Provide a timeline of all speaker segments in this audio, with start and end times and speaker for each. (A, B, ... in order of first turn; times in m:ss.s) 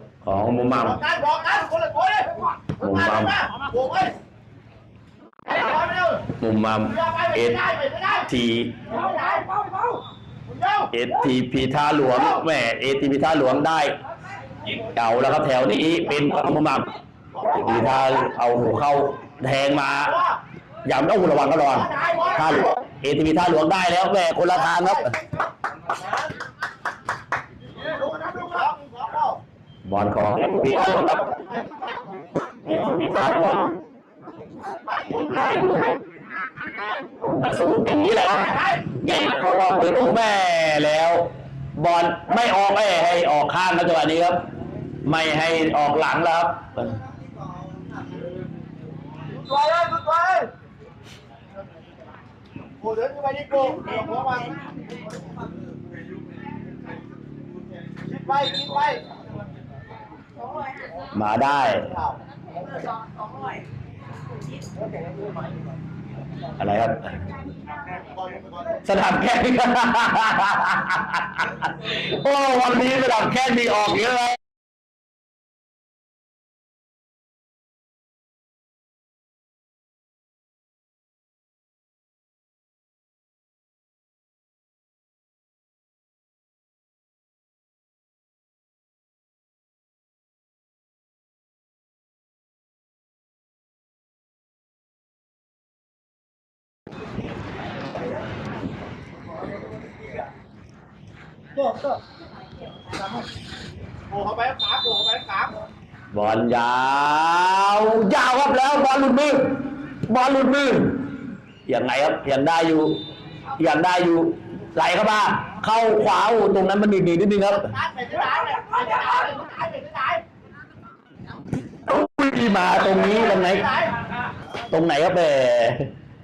0:00.2-0:01.0 A
0:00.8-0:04.1 B
0:02.8-0:03.4 A
0:05.4-0:06.3 B
0:06.4-0:07.6 A
0:06.8-0:08.3 B
0:08.2-0:08.9 A
0:08.9-0:09.7 B
0:10.5-0:10.9 B
0:10.9-0:14.0 A
0:14.9-0:16.9 A
0:17.4-0:18.2 B
0:17.5-0:20.2 A
0:20.0-0:20.4 B
0:20.8-0:25.1 A
0:21.7-0:22.7 B
0:24.7-0:25.1 B
0:27.9-0:29.4 B
0:29.8-0:31.3 A
0:32.7-0:33.8 A
0:37.2-0:44.4 A
0:38.5-0:38.8 B
0:45.0-0:46.9 A
0:49.3-0:50.5 B
0:52.8-0:54.7 B
0:58.0-0:59.0 B
1:01.1-1:01.9 A
1:01.9-1:02.2 B
1:06.6-1:07.1 A
1:08.0-1:08.8 B
1:08.8-1:14.4 A
1:44.1-1:45.6 B
1:46.1-1:51.1 A
1:51.6-1:53.0 A
1:53.6-1:57.7 A
1:57.5-2:00.2 B
2:01.8-2:03.7 A
2:02.9-2:03.9 B
2:04.7-2:05.9 A